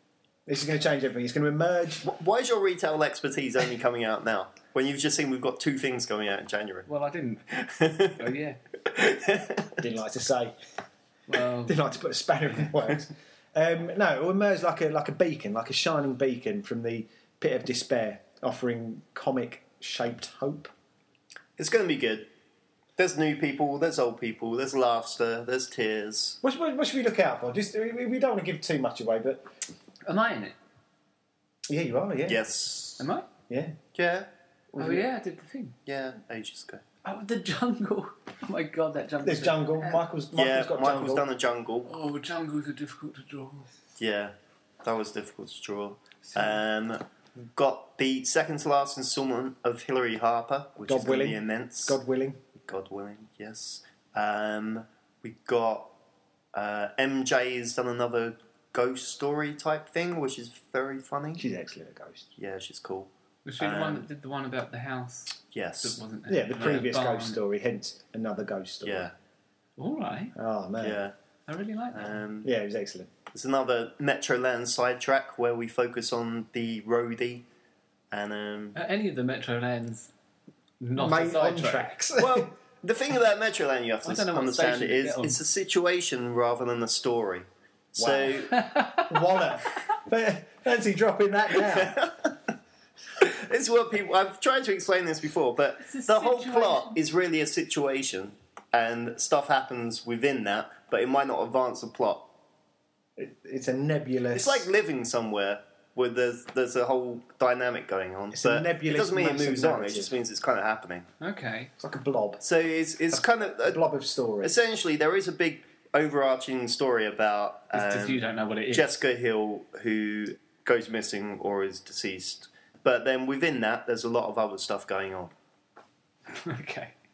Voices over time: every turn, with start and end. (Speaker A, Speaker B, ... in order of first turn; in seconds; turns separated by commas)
Speaker A: 0.5-2.1, Speaker B: 2.0-6.9, Speaker C: 6.9-7.5, Speaker B: 7.5-8.3, Speaker C: 8.0-8.6, Speaker B: 8.8-9.8, Speaker A: 9.8-10.6, Speaker C: 11.3-11.8, Speaker A: 11.6-20.7, Speaker B: 21.6-22.3, Speaker B: 23.0-26.4, Speaker A: 26.4-29.4, Speaker C: 30.0-30.6, Speaker A: 31.7-32.4, Speaker B: 32.2-33.1, Speaker C: 33.0-33.3, Speaker A: 33.5-33.8, Speaker B: 33.9-34.3, Speaker A: 34.7-35.0, Speaker C: 34.8-35.8, Speaker B: 35.9-36.8, Speaker C: 37.0-40.0, Speaker A: 39.2-41.2, Speaker B: 40.3-41.9, Speaker C: 41.8-43.7, Speaker B: 44.0-52.0, Speaker A: 50.9-52.4, Speaker B: 52.6-55.9, Speaker B: 56.5-61.5, Speaker A: 61.4-62.3, Speaker B: 62.4-64.0, Speaker C: 63.4-67.4, Speaker B: 65.5-66.0, Speaker A: 66.3-69.1, Speaker B: 68.8-69.1, Speaker C: 69.8-70.3, Speaker A: 70.3-71.0, Speaker B: 70.8-71.1, Speaker C: 71.5-72.2, Speaker B: 71.9-72.5, Speaker A: 72.4-73.1, Speaker B: 73.3-77.4, Speaker B: 78.1-78.8, Speaker C: 78.7-80.1, Speaker C: 80.8-81.9, Speaker A: 81.0-82.5, Speaker B: 82.2-88.6, Speaker C: 84.0-85.4, Speaker A: 88.0-92.1, Speaker C: 88.5-89.2, Speaker B: 91.6-92.3, Speaker B: 93.2-102.3, Speaker C: 95.8-97.0, Speaker A: 103.2-104.7, Speaker B: 104.3-111.1, Speaker A: 108.3-110.1, Speaker C: 111.2-111.7, Speaker A: 111.8-112.4, Speaker B: 112.4-113.9, Speaker A: 113.1-114.6, Speaker B: 114.4-125.3, Speaker C: 117.7-118.9, Speaker C: 126.3-126.9